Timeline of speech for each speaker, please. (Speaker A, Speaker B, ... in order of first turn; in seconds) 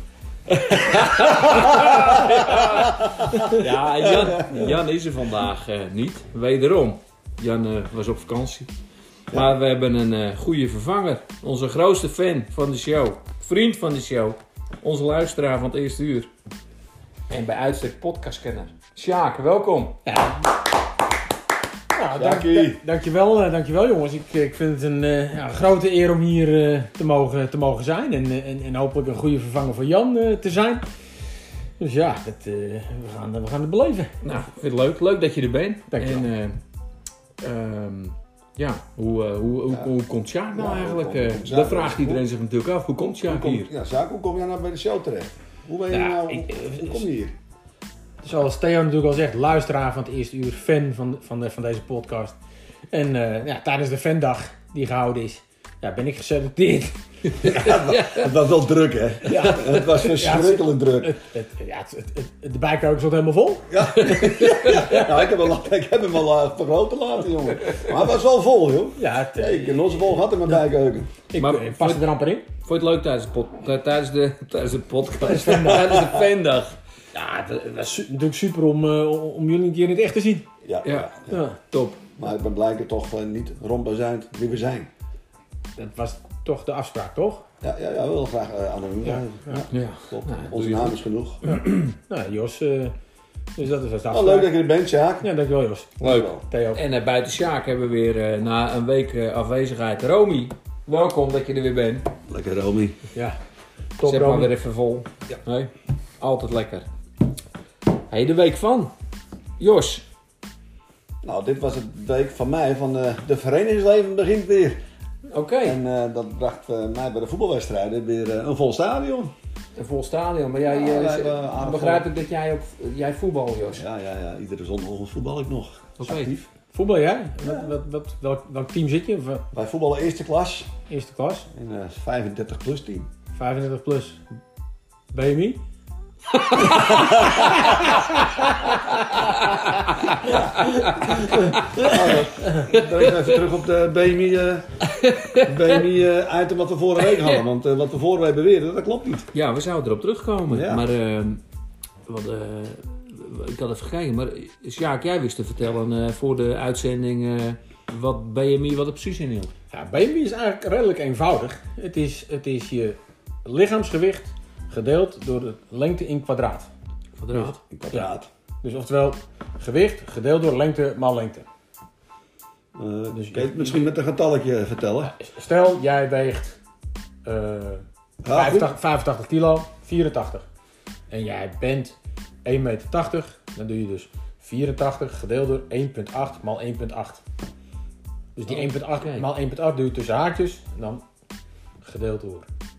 Speaker A: 0.7-8.7, 9.3-16.3, 17.3-19.9, 34.2-36.6, 37.4-43.7, 57.3-58.3, 59.3-59.8, 64.0-65.1, 71.3-76.8, 80.8-82.0, 89.7-91.8, 96.0-102.1, 104.0-106.8, 108.1-108.9, 109.6-110.0, 115.3-115.8, 119.8-123.8, 126.0-126.3, 136.4-136.8, 139.3-143.4, 145.0-145.8, 147.0-147.4, 149.3-151.4, 152.1-159.5, 167.2-167.6, 188.5-189.3
Speaker B: 1.3-4.8, 9.3-9.6, 22.1-22.8, 39.7-39.9, 40.5-42.2, 43.0-47.4, 57.4-61.1, 63.7-71.1, 80.6-81.4, 82.2-84.9, 87.6-91.4, 94.1-95.3, 96.0-96.4, 102.3-103.0, 111.2-114.8, 115.6-119.3, 120.7-122.1, 123.7-126.5, 127.4-127.7, 129.5-130.7, 131.5-133.1, 140.2-144.7, 145.4-149.3, 150.5-150.9, 167.7-168.3, 172.8-175.1, 178.2-178.7
Speaker C: 20.0-20.4, 21.9-30.8, 31.8-34.1, 35.9-36.3, 45.9-47.0, 48.2-52.4, 52.9-57.0, 59.3-63.7, 69.0-70.1, 71.3-72.5, 75.2-75.8, 77.1-80.5, 81.3-81.6, 85.8-87.4, 91.5-92.9, 93.6-94.5, 95.2-96.8, 104.0-104.5, 126.7-129.4, 130.9-131.5, 133.3-134.3, 135.1-135.6, 136.9-137.4, 159.7-166.7, 167.3-171.4, 173.1-173.8, 175.1-176.6, 177.2-180.5, 181.1-187.2, 188.3-191.0, 191.8-192.5